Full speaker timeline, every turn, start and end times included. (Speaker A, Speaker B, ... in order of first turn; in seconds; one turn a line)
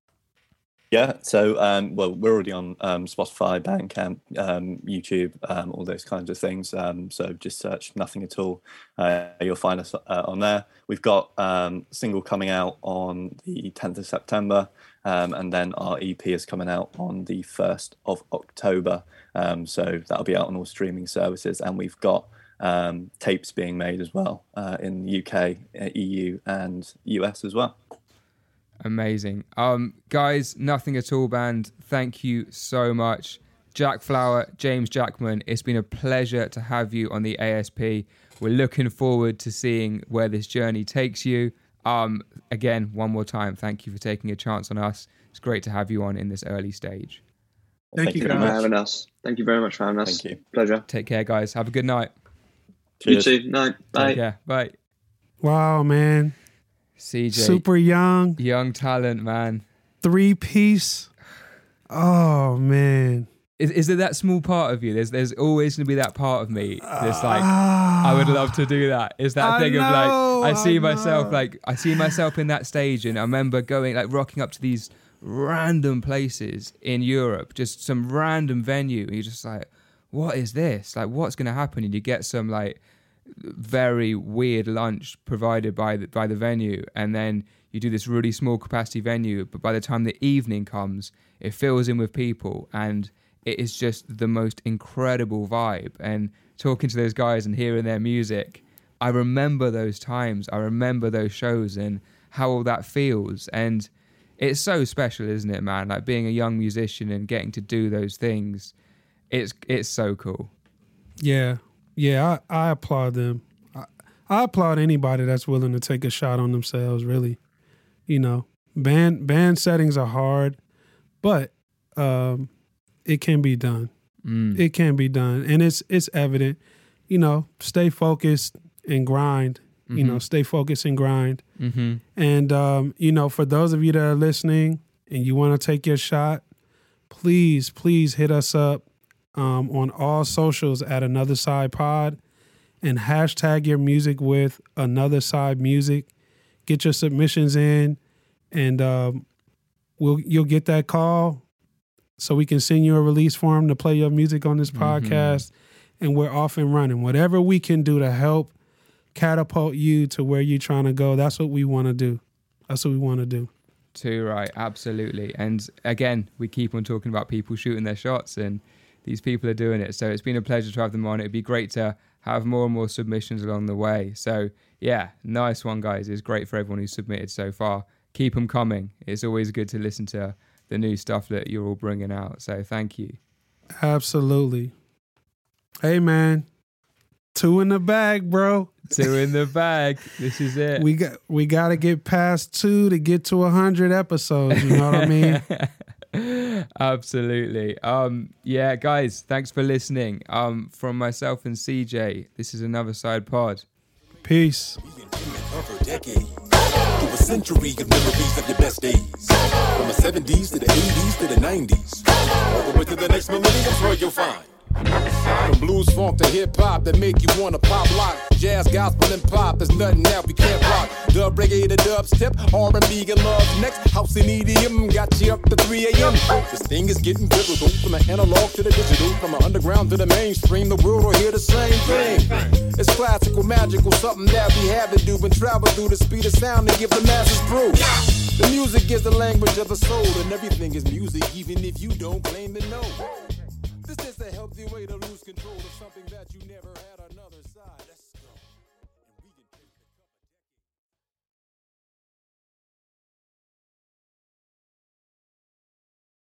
Speaker A: 0.9-27.8
Speaker B: 28.8-47.2
Speaker A: 47.9-48.7
Speaker C: 48.0-48.6
Speaker D: 48.2-50.8
Speaker A: 50.0-50.4
Speaker B: 50.9-52.1
Speaker A: 53.0-53.3
Speaker D: 53.0-54.2
Speaker B: 53.9-54.8
Speaker C: 55.4-56.3
Speaker B: 57.0-57.6
Speaker C: 57.3-58.4
Speaker B: 58.4-59.6
Speaker C: 60.0-61.1
Speaker C: 61.9-63.3
Speaker B: 63.6-108.7
Speaker C: 66.8-68.5
Speaker C: 69.4-71.4
Speaker B: 109.3-110.5
Speaker C: 111.2-117.4
Speaker C: 118.1-120.6
Speaker C: 121.2-122.5
Speaker C: 123.0-123.9
Speaker B: 124.2-124.6
Speaker C: 124.5-131.4
Speaker B: 129.9-130.2
Speaker B: 131.6-132.0
Speaker C: 132.2-136.4
Speaker C: 137.1-138.8
Speaker C: 139.3-142.2
Speaker C: 142.8-146.1
Speaker C: 146.7-148.0
Speaker C: 148.5-149.2
Speaker C: 150.0-151.4
Speaker C: 152.2-158.5
Speaker B: 154.7-155.4
Speaker C: 159.1-163.5
Speaker B: 163.9-183.2
Speaker C: 183.8-184.7
Speaker C: 185.8-186.5
Speaker C: 187.3-188.9
Speaker B: 188.9-190.9
Speaker C: 190.8-195.4
Speaker B: 194.5-203.7
Speaker C: 204.2-204.8
Speaker E: 204.8-206.4
Speaker E: 207.0-243.0
Speaker E: 243.8-248.5
Speaker E: 249.1-250.4